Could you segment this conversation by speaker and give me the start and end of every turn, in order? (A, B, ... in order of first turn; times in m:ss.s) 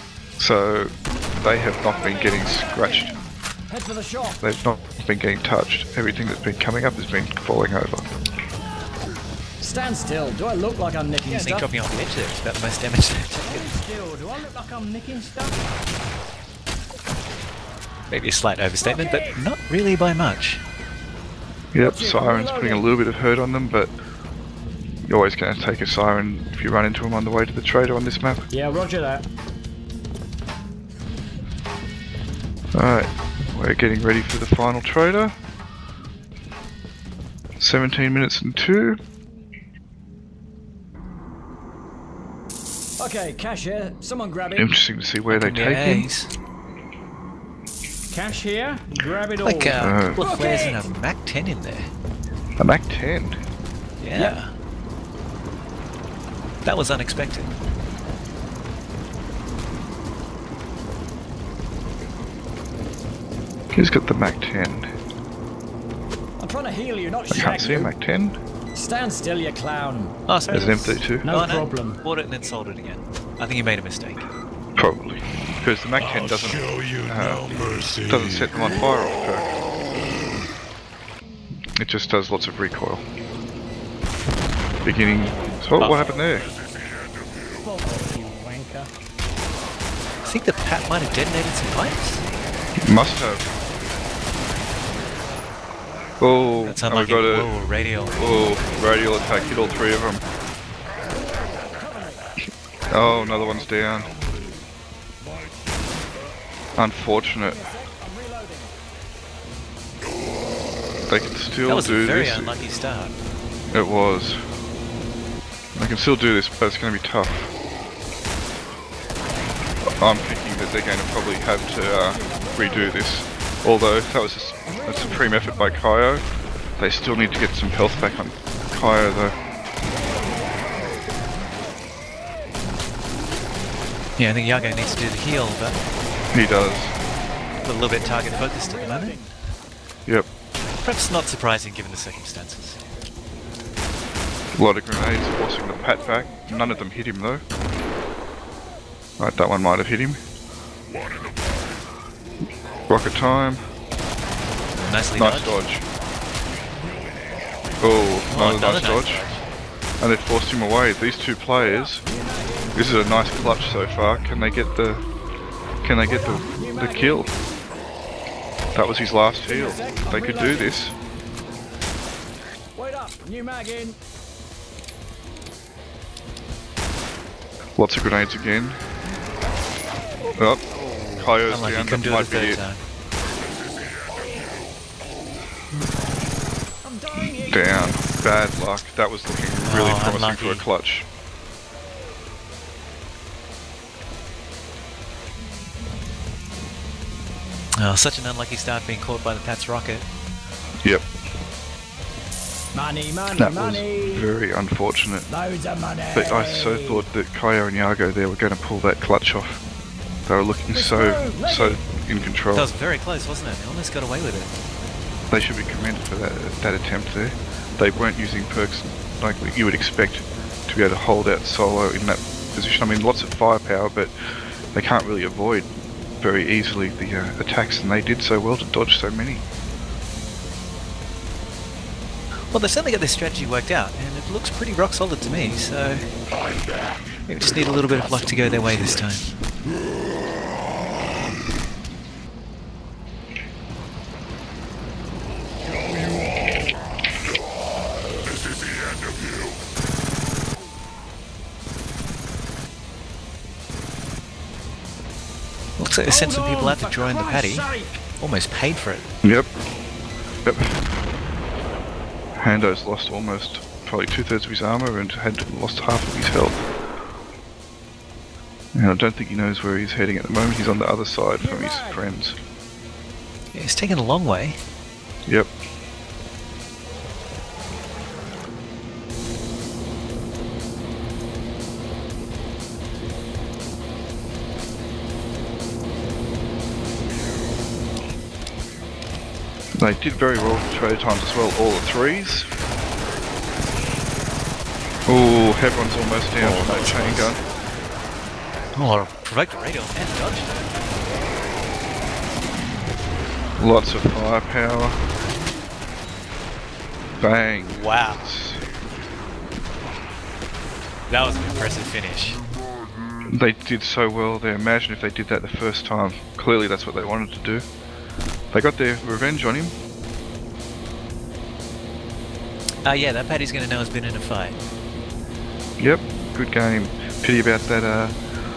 0:00.4-0:03.1 A
0:02.1-0:04.4 B
0:04.4-0:08.0 A
0:09.6-0:11.7 B
0:11.2-0:13.7 C
0:13.5-0:15.7 B
0:18.1-0:20.6 C
0:18.8-0:19.4 B
0:21.7-0:23.9 A
0:21.8-0:22.8 B
0:25.0-0:28.4 A
0:28.5-0:29.2 B
0:32.7-0:35.3 A
0:37.6-0:39.0 A
0:43.0-0:44.7 B
0:44.5-0:46.1 A
0:45.3-0:46.3 C
0:48.1-0:50.9 B
0:49.4-0:51.9 C
0:49.8-0:50.2 A
0:52.6-0:53.4 A
0:54.0-0:54.5 C
0:56.6-0:57.5 C
1:03.7-1:04.9 A
1:06.4-1:07.9 B
1:07.3-1:08.4 A
1:08.7-1:10.1 B
1:10.3-1:14.2 C
1:10.5-1:11.3 A
1:11.2-1:12.0 B
1:14.8-1:19.5 A
1:21.8-1:23.0 A
1:24.8-1:26.5 A
1:25.8-1:26.1 C
1:27.6-1:28.9 B
1:30.2-1:32.2 C
1:32.8-1:33.4 A
1:36.2-1:37.5 A
1:36.6-1:38.2 C
1:38.2-1:40.2 A
1:41.1-1:42.2 B
1:42.9-1:44.2 A
1:46.8-1:47.6 A
1:47.4-1:48.7 B
1:51.1-1:52.6 A
1:51.7-1:53.2 C
1:53.7-1:54.4 A
1:55.7-1:57.5 A
2:00.0-2:06.2 A
2:02.2-2:02.5 B
2:06.8-2:09.4 A
2:09.9-2:11.1 B
2:14.2-2:15.8 C
2:16.3-2:16.9 A
2:17.6-2:19.2 C
2:18.0-2:19.3 B
2:20.8-2:22.8 C
2:24.5-2:27.4 A
2:26.0-2:26.5 B
2:29.2-2:30.2 A
2:32.9-2:33.6 A
2:34.7-2:35.6 C
2:35.2-2:35.8 A
2:37.8-2:39.2 A
2:38.3-2:39.4 C
2:40.0-2:42.0 A
2:42.0-2:42.8 B
2:42.7-2:45.0 A
2:45.8-2:47.3 A
2:46.0-2:47.3 B
2:48.7-2:50.9 A
2:49.4-2:50.9 B
2:52.8-2:54.0 B
2:57.8-2:58.8 A
3:00.4-3:00.6 A
3:01.2-3:02.6 A
3:01.5-3:02.8 C
3:06.8-3:08.1 B
3:07.1-3:11.0 A
3:09.6-3:10.6 C
3:17.8-3:20.0 C
3:22.7-3:24.3 B
3:23.3-3:25.3 A
3:25.3-3:27.0 B
3:26.1-3:29.6 A
3:30.2-3:32.7 A
3:30.7-3:31.8 B
3:32.5-3:34.5 C
3:35.3-3:44.1 A
3:44.7-3:49.4 A
3:52.5-3:56.0 C
3:57.3-3:59.2 C
4:15.8-4:19.0 C
4:16.0-4:18.0 B
4:19.2-4:19.5 A
4:20.4-4:20.8 A
4:22.4-4:26.6 A
4:28.7-4:32.4 A
4:31.4-4:32.0 B
4:33.5-4:34.6 C
4:49.8-4:52.5 A
4:55.1-4:57.4 A
4:56.4-4:57.4 C
4:58.8-5:00.6 C
5:03.6-5:05.0 A
5:07.2-5:08.6 A
5:07.7-5:08.3 C
5:11.1-5:12.4 C
5:13.3-5:17.6 A
5:18.5-5:19.7 A
5:22.8-5:24.6 C
5:25.8-5:28.2 A